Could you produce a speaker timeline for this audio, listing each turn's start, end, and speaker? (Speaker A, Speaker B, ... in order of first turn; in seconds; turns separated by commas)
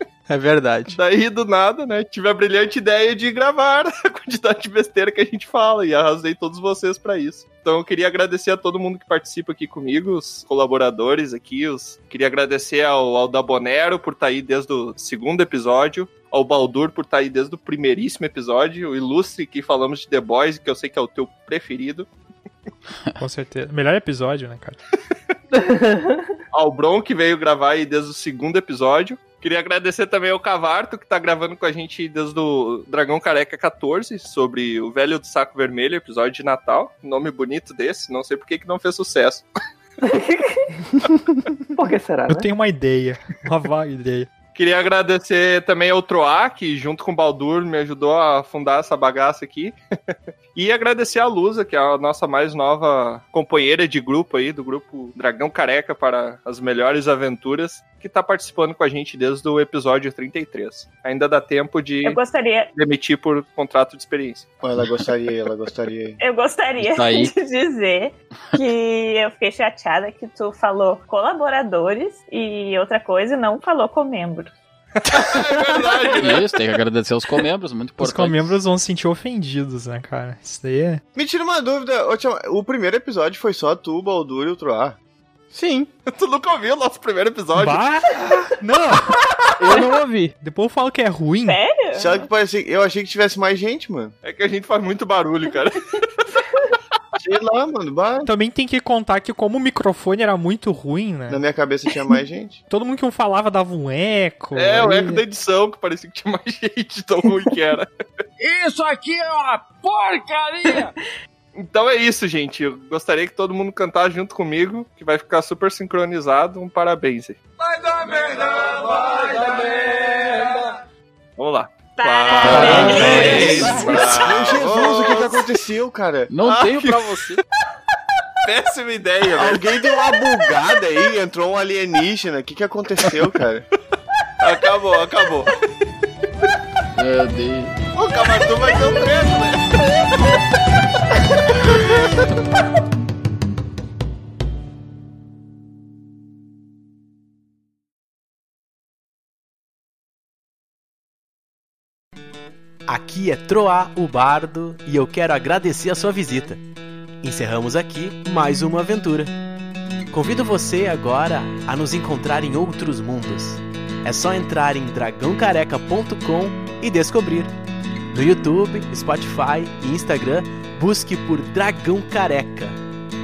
Speaker A: 0.3-1.0, Speaker B: 0.9-22.1, Speaker C: 23.2-24.8, Speaker D: 25.5-26.3, Speaker B: 26.5-39.4, Speaker D: 40.0-40.7, Speaker D: 41.8-42.5, Speaker C: 42.3-44.3, Speaker B: 44.5-49.8, Speaker B: 50.5-62.2, Speaker E: 62.0-62.7, Speaker B: 62.7-64.5, Speaker F: 64.6-66.2, Speaker E: 66.2-74.5, Speaker G: 66.8-67.3, Speaker B: 75.0-76.4, Speaker G: 76.1-78.6, Speaker C: 78.0-81.0, Speaker F: 81.2-85.0, Speaker A: 85.5-85.9, Speaker B: 86.1-87.8, Speaker C: 87.5-89.2, Speaker A: 89.6-90.3, Speaker C: 90.4-91.6, Speaker E: 91.4-92.3, Speaker F: 92.0-94.1, Speaker B: 94.2-95.8, Speaker F: 97.2-98.3, Speaker C: 98.2-101.4, Speaker F: 101.3-102.6, Speaker C: 102.7-105.2, Speaker B: 104.5-107.9, Speaker H: 108.4-110.9, Speaker B: 111.5-117.4, Speaker H: 117.7-120.6, Speaker B: 121.4-125.4, Speaker E: 122.0-123.8, Speaker G: 122.4-124.0, Speaker F: 123.0-126.3, Speaker G: 126.3-127.4, Speaker B: 126.4-127.1, Speaker B: 128.4-129.7, Speaker F: 129.3-133.6, Speaker B: 134.4-135.5, Speaker G: 136.9-137.7, Speaker B: 137.9-139.6, Speaker A: 152.9-156.6, Speaker A: 157.2-159.3, Speaker A: 160.1-167.5, Speaker A: 168.1-172.8